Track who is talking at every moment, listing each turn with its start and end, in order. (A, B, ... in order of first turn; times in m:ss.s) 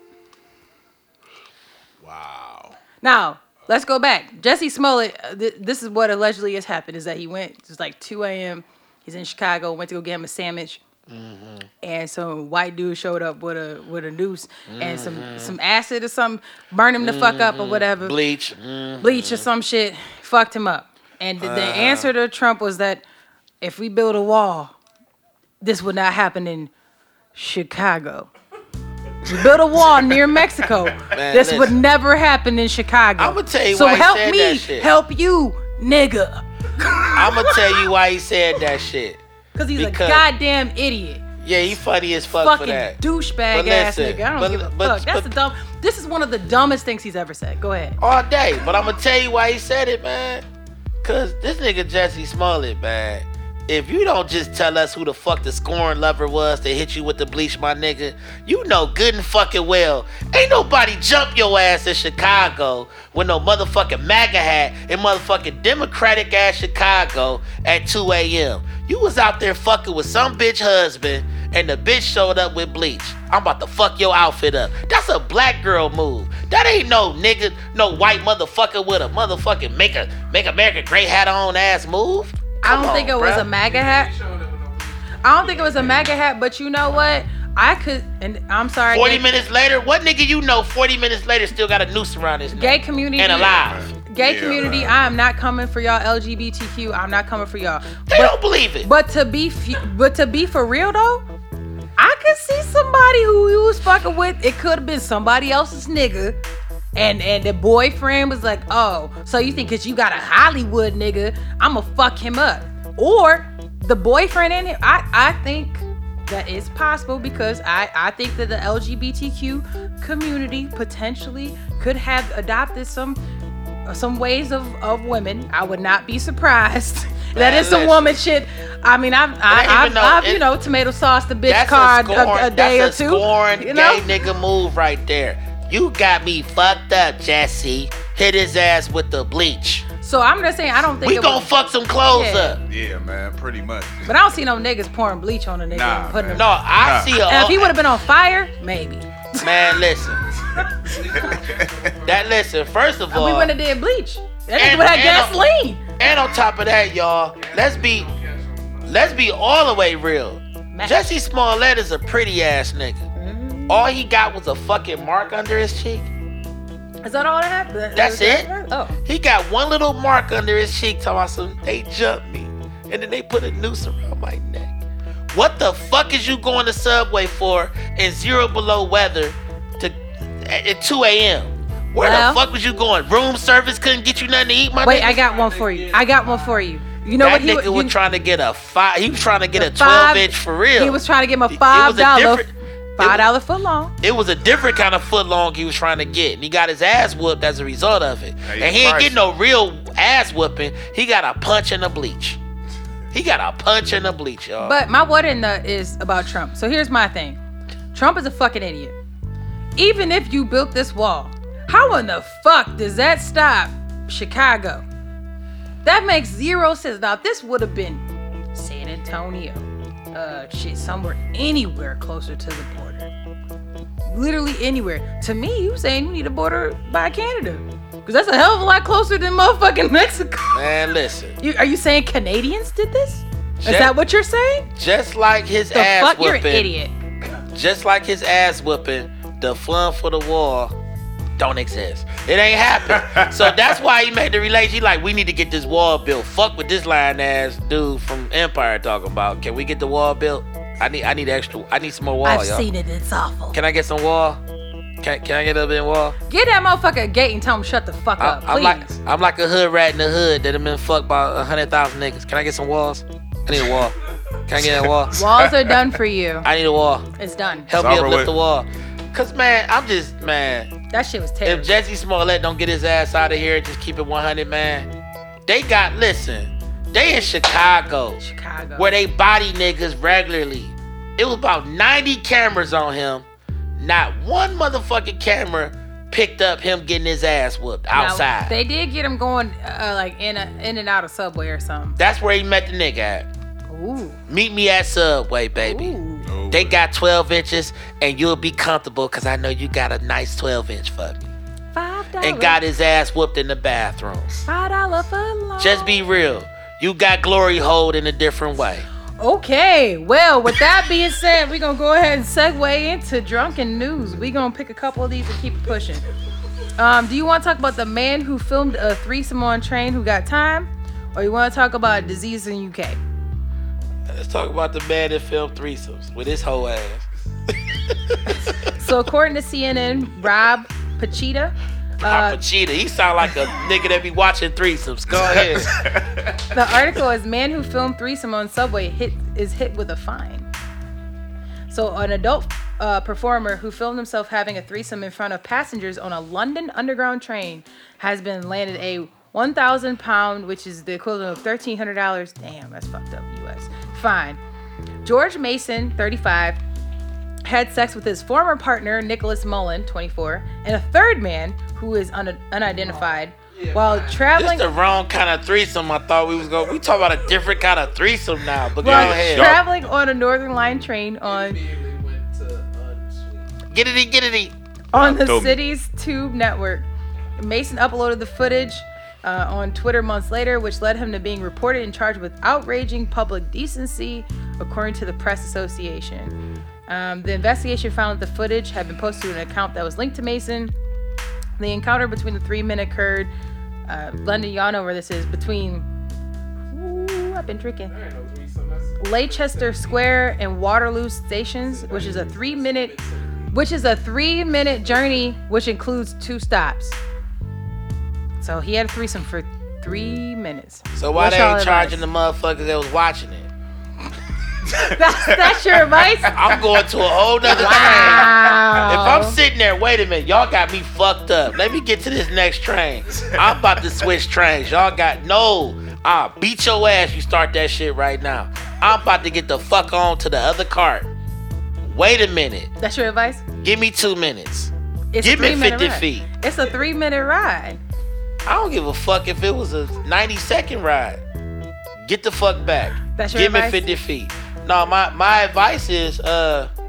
0:02.0-0:02.8 A
0:03.0-0:10.8 B
0:11.1-0:11.7 C
0:11.8-0:18.2 B
0:14.7-0:15.6 C
0:17.0-0:19.5 C
0:19.0-0:23.0 B
0:21.4-0:22.1 C
0:23.6-0:24.8 B
0:25.6-0:26.7 B
0:27.3-0:28.3 B
0:29.2-0:37.9 B
0:31.1-0:31.8 C
0:33.2-0:34.9 C
0:37.1-0:39.2 C
0:39.6-0:41.2 B
0:39.8-0:40.2 C
0:41.4-0:43.0 C
0:42.4-0:48.0 B
0:43.5-0:45.3 C
0:48.0-0:50.4 C
0:51.0-1:23.5 C
1:22.6-1:24.1 B
1:23.6-1:26.0 D
1:25.2-1:29.3 B
1:28.9-1:33.8 C
1:32.5-1:41.2 B
1:33.3-1:35.0 A
1:38.1-1:38.9 C
1:42.0-1:46.4 B
1:46.9-2:03.2 B
2:03.9-2:14.1 B
2:07.4-2:08.1 C
2:09.5-2:10.4 C
2:11.5-2:19.9 C
2:20.0-2:21.5 B
2:21.0-2:22.6 C
2:22.1-2:22.6 B
2:22.6-2:24.1 A
2:24.0-2:26.5 B
2:25.7-2:27.1 A
2:26.3-2:27.7 C
2:27.2-2:29.5 B
2:29.4-2:30.3 C
2:30.8-2:32.4 D
2:31.0-2:31.7 A
2:32.0-2:33.5 C
2:33.1-2:36.0 B
2:34.6-2:35.3 C
2:36.0-2:38.1 C
2:37.3-2:39.2 D
2:38.9-2:43.0 C
2:40.7-2:41.1 B
2:43.1-2:43.9 B
2:43.7-2:46.1 C
2:47.0-2:49.0 B
2:47.9-2:48.5 C
2:49.0-2:54.7 C
2:55.3-3:05.2 C
3:02.0-3:02.4 B
3:04.8-3:07.9 B
3:04.9-3:06.6 D
3:07.2-3:13.3 C
3:09.6-3:12.5 B
3:13.0-3:13.9 B
3:14.0-3:22.4 C
3:18.4-3:19.2 A
3:23.1-3:24.8 C
3:24.6-3:27.4 B
3:27.9-3:28.9 B
3:29.8-3:34.8 B
3:35.8-3:38.0 B
3:38.5-3:43.1 B
3:44.1-3:50.6 B
3:50.5-3:51.4 C
3:51.4-3:54.7 B
3:53.6-3:53.9 C
3:54.8-3:56.7 C
3:55.7-3:56.9 B
3:57.5-4:00.7 C
4:01.4-4:12.6 C
4:02.9-4:03.8 A
4:12.2-4:13.6 B
4:13.5-4:14.4 C
4:15.0-4:16.2 C
4:16.3-4:19.0 B
4:18.2-4:24.0 C
4:24.5-4:25.2 C
4:24.6-4:25.9 A
4:25.1-4:26.5 B
4:26.4-4:27.1 C
4:27.2-4:27.7 B
4:27.7-4:30.7 C
4:27.7-4:28.3 A
4:30.9-4:31.8 B
4:31.4-4:34.9 C
4:35.5-4:38.2 C
4:38.2-4:38.9 B
4:38.8-4:43.2 C
4:43.8-4:48.5 C
4:47.9-4:52.0 B
4:52.0-4:53.3 C
4:53.7-4:54.2 B
4:54.3-4:56.0 C
4:55.6-4:56.3 B
4:56.2-4:56.8 A
4:56.5-5:01.3 C
5:01.7-5:02.6 B
5:02.2-5:04.4 C
5:04.5-5:05.9 B
5:05.6-5:08.9 C
5:09.2-5:16.0 B
5:16.8-5:23.0 B
5:24.1-5:28.6 C
5:28.3-5:32.4 B
5:32.0-5:35.7 C
5:35.1-5:36.5 A
5:36.5-5:40.5 B
5:41.7-5:54.4 B
5:55.0-5:56.6 B
5:57.4-6:04.7 B
6:03.5-6:04.3 D
6:04.4-6:09.6 C
6:08.8-6:09.6 A
6:08.8-6:11.6 B
6:11.2-6:13.5 D
6:13.7-6:14.6 C
6:14.9-6:16.9 B
6:14.9-6:15.6 A
6:17.4-6:26.4 B
6:26.9-6:30.7 B
6:31.6-6:33.3 B
6:33.9-6:35.9 B
6:36.7-6:37.9 B
6:37.9-6:40.1 D
6:39.0-6:42.9 B
6:41.6-6:43.6 D
6:43.5-6:47.0 B
6:48.4-6:52.0 B
6:50.9-6:53.5 C
6:54.6-6:58.5 A
6:54.7-6:56.5 B
6:56.3-7:11.1 C
6:57.4-6:59.4 B
7:11.8-7:12.7 C
7:12.8-7:13.4 B
7:13.6-7:16.3 C
7:15.1-7:17.8 B
7:18.4-7:21.2 C
7:22.0-7:26.7 C
7:23.1-7:23.8 B